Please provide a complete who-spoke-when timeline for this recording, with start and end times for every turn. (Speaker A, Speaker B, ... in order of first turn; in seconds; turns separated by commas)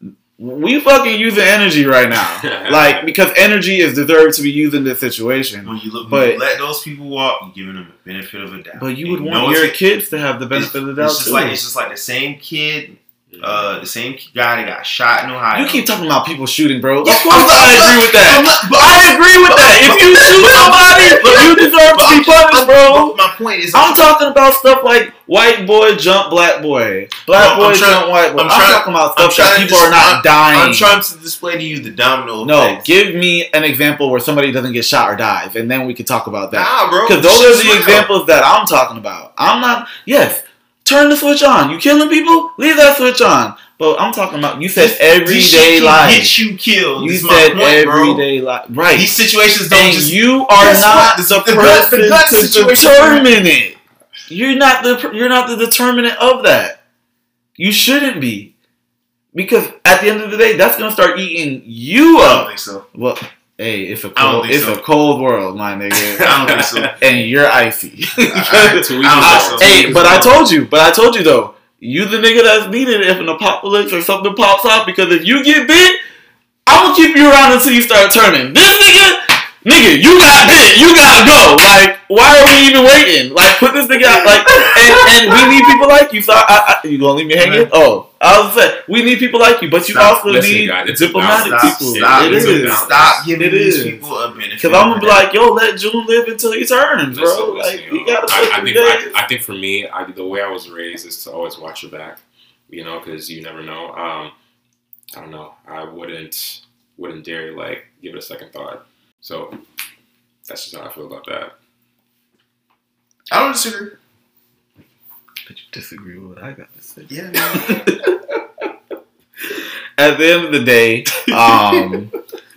Speaker A: 0.4-6.4, Speaker B: 2.4-3.1, Speaker C: 5.6-9.8, Speaker A: 8.8-11.6, Speaker C: 10.5-15.9, Speaker B: 13.3-13.8, Speaker A: 15.5-23.2, Speaker C: 17.0-24.1, Speaker A: 23.7-31.0, Speaker C: 27.3-32.9, Speaker A: 32.4-46.4, Speaker C: 36.5-38.1, Speaker C: 44.8-48.2, Speaker A: 47.0-53.8, Speaker C: 48.9-53.3, Speaker A: 54.3-56.8, Speaker A: 57.6-58.5, Speaker A: 59.3-66.4, Speaker C: 62.2-62.9, Speaker C: 64.2-64.8, Speaker C: 66.2-67.0, Speaker B: 66.2-67.0, Speaker A: 67.0-76.0, Speaker C: 68.3-70.4, Speaker B: 68.7-70.3, Speaker A: 76.7-92.8, Speaker C: 84.4-85.6, Speaker C: 87.4-87.7, Speaker C: 89.9-90.6, Speaker B: 90.3-93.3, Speaker C: 91.2-95.2, Speaker A: 93.4-94.0, Speaker A: 94.6-99.2, Speaker B: 97.1-104.3, Speaker B: 105.1-109.6, Speaker B: 110.5-111.5, Speaker C: 113.3-114.0, Speaker A: 115.5-118.6, Speaker C: 117.1-117.9, Speaker A: 119.5-122.1